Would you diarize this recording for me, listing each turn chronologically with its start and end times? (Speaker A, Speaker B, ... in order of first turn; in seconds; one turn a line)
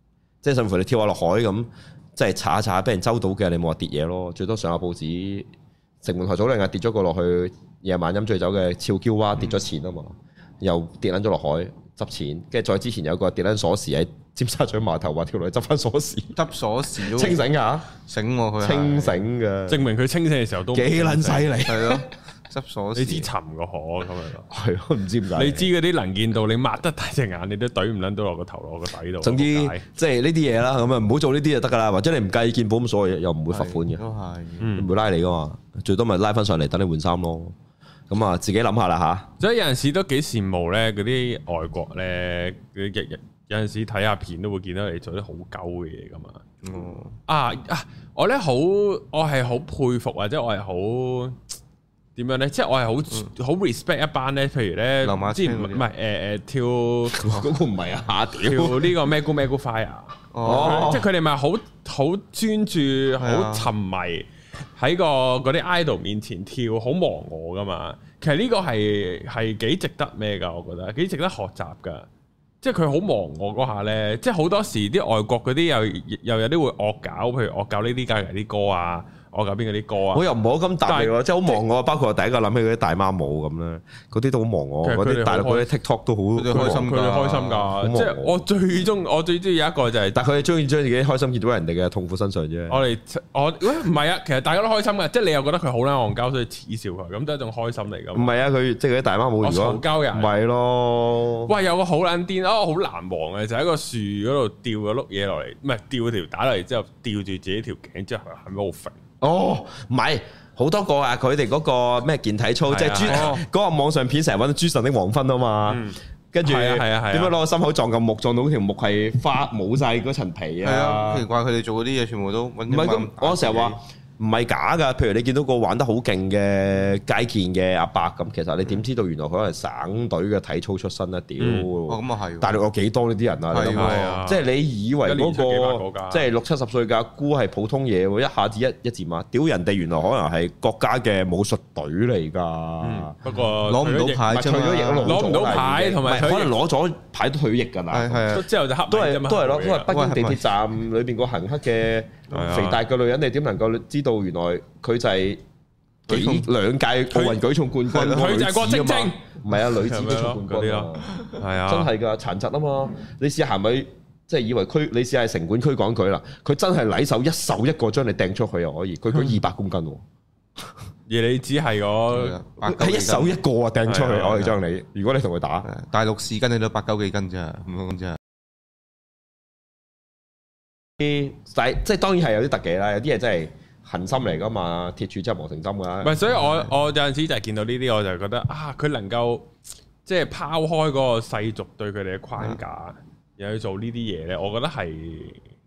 Speaker A: 0.4-5.5
Speaker A: 6.0-16.4
Speaker B: 16.3-17.4
Speaker A: 17.0-17.9
Speaker B: 18.0-19.2
Speaker A: 18.6-19.8
Speaker C: 19.7-21.5
Speaker A: 20.7-22.1
Speaker B: 21.6-23.3
Speaker C: 22.9-24.5
Speaker A: 24.5-25.7
Speaker C: 25.3-29.8
Speaker A: 29.2-34.0
Speaker B: 33.5-34.7
Speaker C: 34.6-34.9
Speaker A: 34.7-37.5
Speaker A: 38.1-39.3
Speaker C: 39.4-46.4
Speaker B: 46.6-47.1
Speaker C: 47.3-51.4
Speaker C: 52.1-57.4
Speaker B: 55.0-55.8
Speaker A: 57.1-58.9
Speaker C: 58.4-72.1
Speaker B: 60.3-61.0
Speaker A: 60.4-61.1
Speaker B: 63.2-63.7
Speaker C: 72.6-80.3
Speaker A: 80.1-86.9
Speaker C: 80.8-81.6
Speaker C: 84.8-85.7
Speaker B: 86.3-87.7
Speaker C: 86.5-90.2
Speaker A: 87.8-88.4
Speaker A: 90.1-92.8
Speaker C: 92.7-98.3
Speaker A: 98.1-101.5
Speaker C: 99.4-100.3
Speaker C: 101.5-109.0
Speaker A: 109.2-121.2
Speaker C: 112.7-113.4
Speaker C: 115.7-117.3
Speaker B: 120.6-123.8
Speaker A: 122.7-143.2
Speaker C: 131.4-131.7
Speaker B: 131.9-132.6
Speaker B: 133.5-134.2
Speaker C: 133.7-134.4
Speaker C: 135.0-136.3
Speaker C: 142.8-146.5
Speaker B: 143.3-145.3
Speaker A: 144.2-155.4
Speaker B: 147.9-148.4
Speaker C: 148.3-149.9
Speaker B: 149.9-150.4
Speaker C: 152.3-152.8
Speaker B: 156.1-156.5
Speaker A: 156.1-161.1
Speaker C: 157.1-161.9
Speaker A: 161.7-170.0
Speaker C: 171.1-172.4
Speaker B: 172.1-173.3
Speaker A: 172.6-175.7
Speaker C: 173.8-174.6
Speaker B: 175.7-178.2
Speaker A: 181.0-186.2
Speaker C: 186.0-189.5
Speaker C: 190.0-195.4